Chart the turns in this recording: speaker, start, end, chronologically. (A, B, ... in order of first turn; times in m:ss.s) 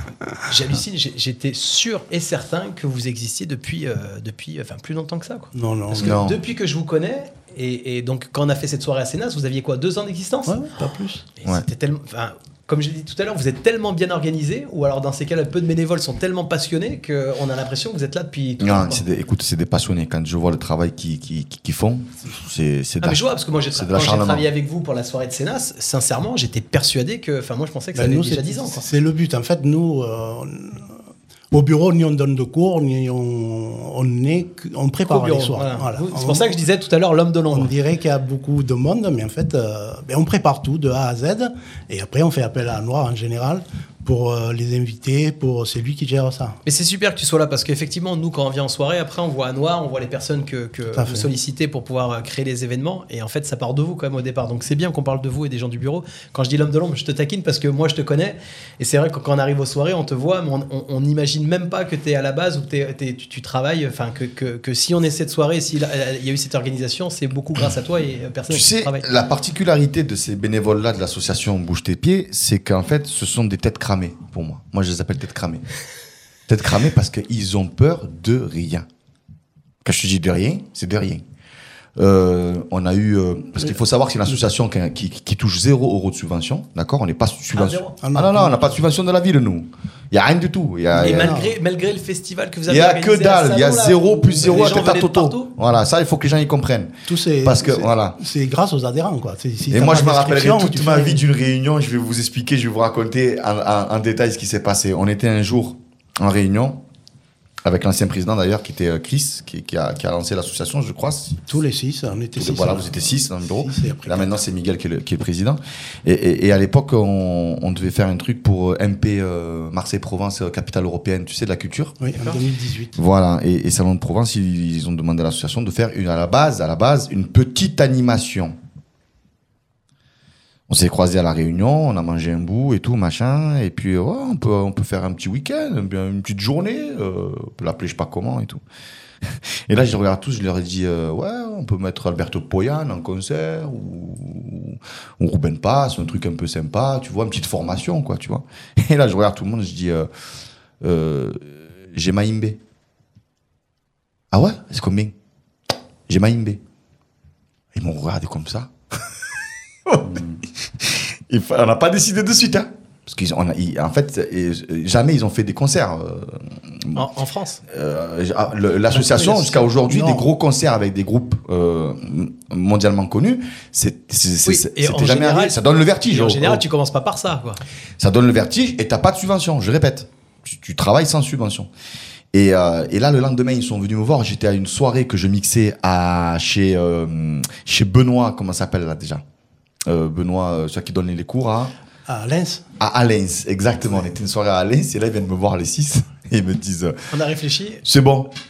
0:00.4-0:10.6 A
0:05.5-0:06.2 B
0:06.0-0:06.4 C
0:10.5-0:11.2 B
0:11.4-0:19.0 A
0:18.6-0:24.5 C
0:23.0-0:28.8 A
0:27.9-0:30.8 B
0:31.5-0:36.6 B
0:35.1-0:37.7 A
0:37.5-0:46.6 B
0:46.6-1:09.1 A
0:50.9-0:51.3 B
1:08.5-1:15.6 C
1:16.5-1:18.8 C
1:19.8-1:21.2 C
1:22.0-1:31.4 C
1:27.5-1:27.9 A
1:28.0-1:28.8 B
1:30.9-1:31.5 B
1:31.0-1:35.5 A
1:32.7-1:38.2 C
1:37.1-1:41.2 B
1:39.7-1:46.8 C
1:47.6-1:51.4 C
1:51.5-1:54.4 B
1:52.4-2:02.0 C
2:02.0-2:03.0 B
2:02.1-2:02.4 A
2:03.0-2:08.5 C
2:10.7-2:18.6 C
2:19.7-2:30.1 C
2:30.8-2:32.6 C
2:34.3-2:35.1 C
2:36.1-2:36.6 C
2:37.7-2:38.7 C
2:39.9-2:40.2 C
2:40.8-2:47.1 C
2:46.9-2:47.6 A
2:47.7-2:56.6 C
2:48.9-2:50.3 B
2:54.4-2:57.6 A
2:58.0-3:01.7 C
3:02.3-3:09.2 C
3:09.9-3:11.7 C
3:12.1-3:12.6 B
3:12.8-3:17.0 C
3:17.1-3:17.8 A
3:17.8-3:18.3 C